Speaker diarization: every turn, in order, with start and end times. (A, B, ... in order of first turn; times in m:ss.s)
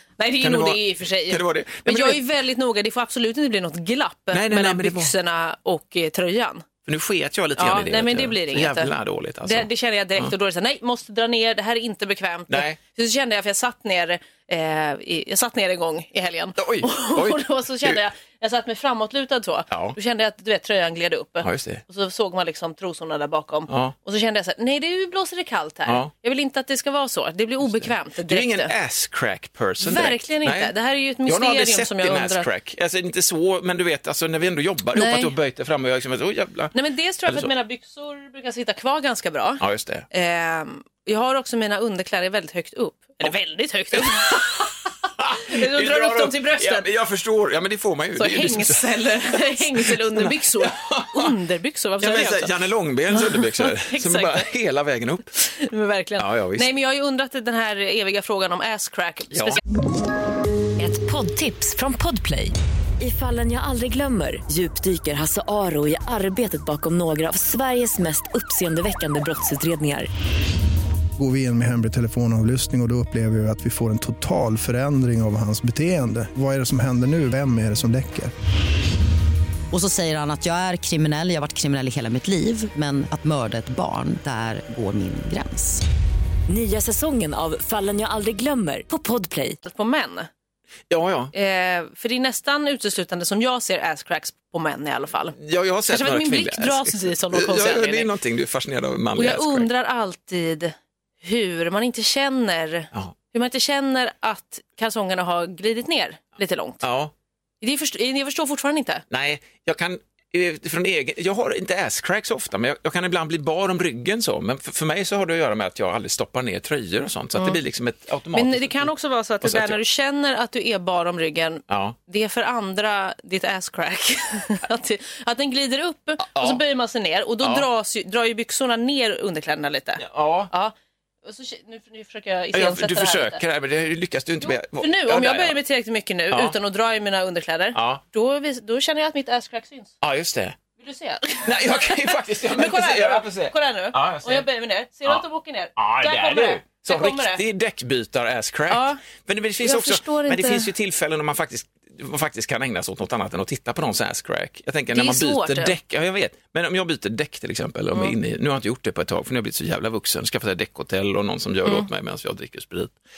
0:00.2-0:06.6 A
0:00.4-0:02.2 B
0:04.3-0:05.1 B
0:06.9-0:10.3 B
0:07.6-0:08.9 A
0:09.4-0:28.7 A
0:12.5-0:12.8 B
0:16.6-0:18.0 B
0:19.7-0:20.0 B
0:21.4-0:21.8 B
0:23.7-0:24.0 B
0:27.6-0:30.7 B
0:29.8-0:32.5 A
0:31.3-0:36.8 B
0:35.0-0:35.3 A
0:36.7-0:44.7 A
0:37.3-0:37.5 B
0:39.6-0:40.1 B
0:43.9-0:51.3 B
0:45.4-0:46.8 A
0:48.2-0:52.5 A
0:52.0-0:55.3 B
0:53.1-0:54.5 A
0:55.4-0:59.6 A
0:56.2-0:56.7 B
0:59.3-0:59.6 B
1:00.8-1:10.1 C
1:11.2-1:18.3 D
1:19.7-1:25.8 E
1:26.5-1:29.6 C
1:29.6-1:30.3 A
1:30.9-1:31.3 B
1:31.3-1:35.4 A
1:35.4-1:39.7 B
1:35.9-1:38.1 A
1:39.2-1:46.8 A
1:46.8-1:47.1 B
1:47.6-1:49.0 A
1:49.1-1:59.8 B
1:58.3-2:10.7 A
2:01.7-2:02.0 B
2:06.2-2:06.6 B
2:10.0-2:10.5 B
2:11.2-2:13.4 A
2:12.5-2:15.6 B
2:14.4-2:20.0 A
2:16.3-2:16.6 B
2:17.7-2:18.0 B
2:20.0-2:20.6 B
2:20.8-2:27.4 A
2:21.4-2:24.5 B
2:25.8-2:43.0 B
2:28.7-2:29.0 A
2:29.6-2:30.7 A
2:34.9-2:35.8 A